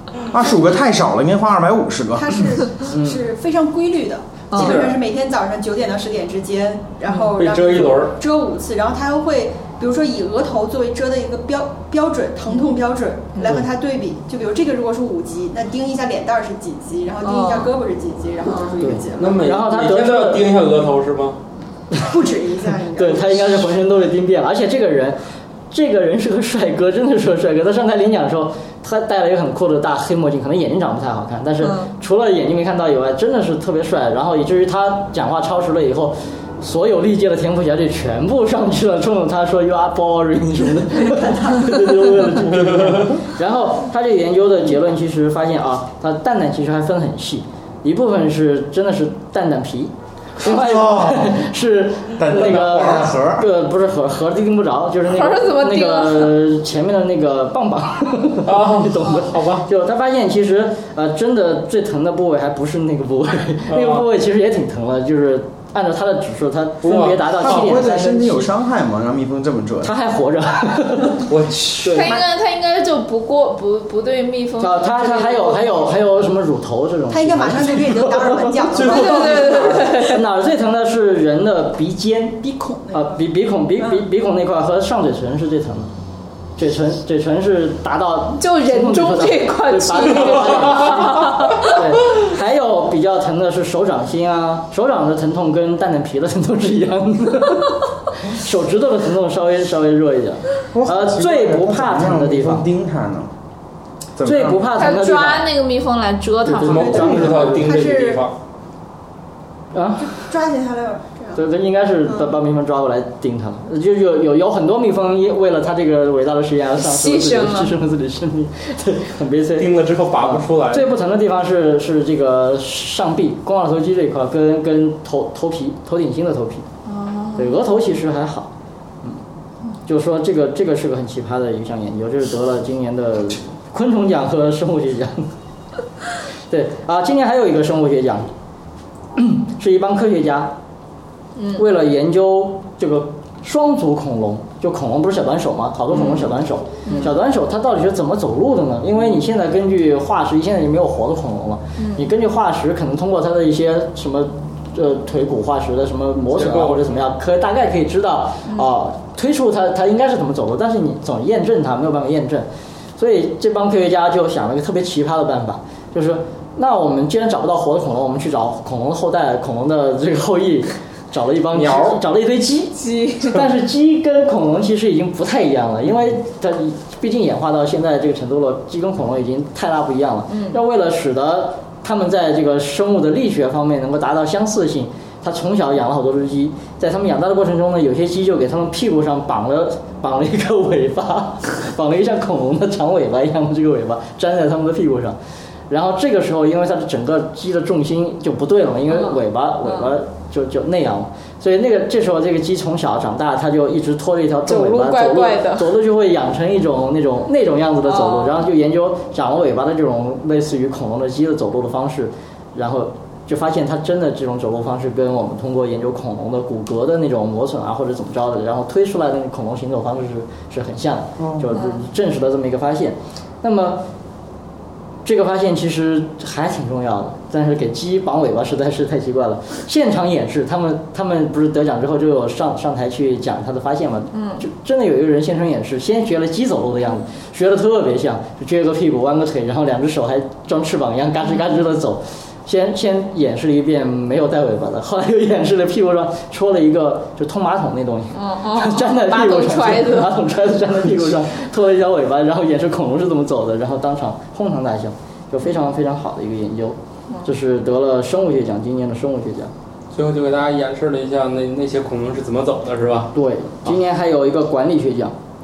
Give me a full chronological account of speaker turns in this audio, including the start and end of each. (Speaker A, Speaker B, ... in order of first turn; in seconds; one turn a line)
Speaker A: 0.3-2.5
Speaker B: 2.1-19.4
Speaker C: 2.9-3.2
Speaker D: 4.5-4.8
Speaker E: 4.5-5.0
Speaker E: 7.4-8.1
Speaker D: 17.2-17.7
Speaker C: 18.8-20.5
Speaker E: 19.1-21.4
Speaker B: 22.0-23.7
Speaker C: 22.9-25.2
Speaker C: 25.7-68.5
Speaker D: 31.6-31.9
Speaker E: 42.7-43.1
Speaker A: 50.4-51.4
Speaker A: 52.2-53.4
Speaker D: 55.1-56.4
Speaker E: 58.4-59.7
Speaker E: 63.7-64.1
Speaker E: 66.8-67.2
Speaker A: 67.2-69.9
Speaker C: 69.8-71.2
Speaker E: 71.3-72.1
Speaker C: 71.8-72.2
Speaker D: 71.9-75.9
Speaker C: 74.6-78.8
Speaker B: 77.1-79.9
Speaker E: 78.7-79.8
Speaker D: 78.8-80.2
Speaker C: 79.8-85.9
Speaker B: 82.4-83.2
Speaker C: 86.6-102.7
Speaker D: 88.4-91.8
Speaker A: 100.7-103.3
Speaker A: 104.2-104.7
Speaker C: 104.2-105.5
Speaker D: 104.7-107.2
Speaker C: 106.4-107.7
Speaker E: 106.6-108.3
Speaker B: 106.8-108.3
Speaker C: 109.7-110.3
Speaker B: 110.0-111.4
Speaker C: 111.3-126.7
Speaker B: 112.1-112.3
Speaker D: 116.8-117.8
Speaker E: 119.6-120.9
Speaker D: 126.8-127.5
Speaker C: 127.4-128.5
Speaker C: 129.8-135.3
Speaker C: 136.5-138.3
Speaker C: 139.2-140.5
Speaker D: 141.3-141.6
Speaker C: 141.5-195.2
Speaker D: 146.8-147.1
Speaker D: 151.8-152.1
Speaker E: 156.3-157.0
Speaker E: 171.5-172.0
Speaker D: 172.7-173.4
Speaker D: 180.3-180.6
Speaker C: 195.7-223.8
Speaker D: 198.9-199.9
Speaker D: 204.4-205.8
Speaker D: 207.8-208.4
Speaker A: 221.2-221.4
Speaker D: 221.5-221.8
Speaker C: 225.0-259.5
Speaker D: 234.1-234.4
Speaker D: 248.1-250.2
Speaker E: 259.9-263.1
Speaker C: 263.1-265.1